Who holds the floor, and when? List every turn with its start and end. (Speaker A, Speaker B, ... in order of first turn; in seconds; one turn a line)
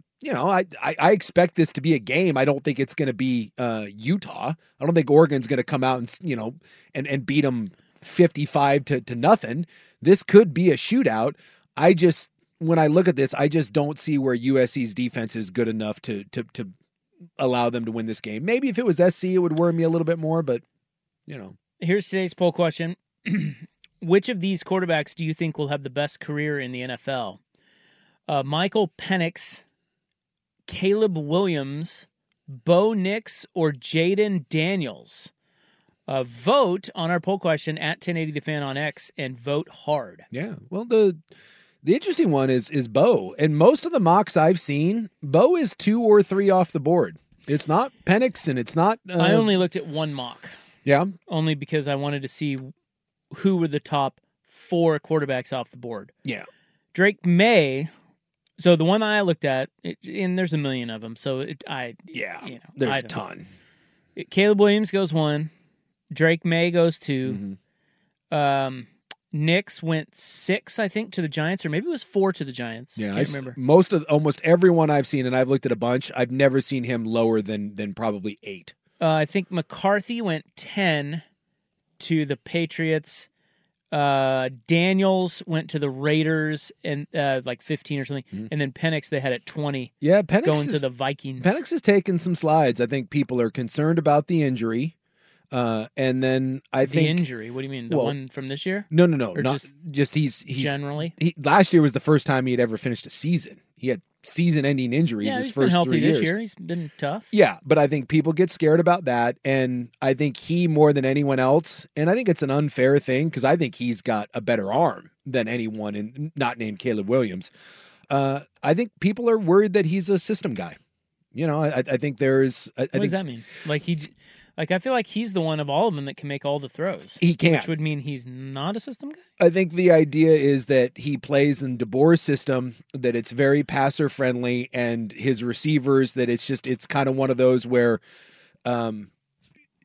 Speaker A: 0.2-16.7
Speaker A: 17.4-20.6
Speaker A: 21.3-21.6
Speaker B: 21.8-27.4
Speaker B: 28.3-29.6
Speaker B: 30.7-35.3
Speaker B: 36.1-40.3
Speaker A: 40.3-41.2
Speaker A: 41.8-49.5
Speaker B: 49.2-50.5
Speaker A: 50.8-51.1
Speaker B: 51.3-52.7
Speaker B: 53.3-56.1
Speaker B: 56.9-57.9
Speaker B: 58.6-63.1
Speaker A: 62.1-63.5
Speaker B: 64.2-65.5
Speaker B: 66.1-67.4
Speaker A: 67.2-67.6
Speaker B: 68.3-73.6
Speaker A: 73.0-78.7
Speaker B: 79.0-81.2
Speaker B: 82.0-83.3
Speaker B: 83.9-89.9
Speaker A: 90.0-90.8
Speaker B: 90.4-91.6
Speaker A: 91.4-94.9
Speaker A: 95.5-97.2
Speaker B: 96.8-99.7
Speaker A: 97.9-98.1
Speaker A: 98.9-106.3
Speaker B: 100.5-101.1
Speaker B: 105.2-107.3
Speaker A: 107.3-117.5
Speaker A: 118.1-120.8
Speaker A: 121.3-123.2
Speaker B: 122.9-129.2
Speaker A: 127.2-127.7
Speaker A: 129.4-138.0
Speaker A: 138.6-139.1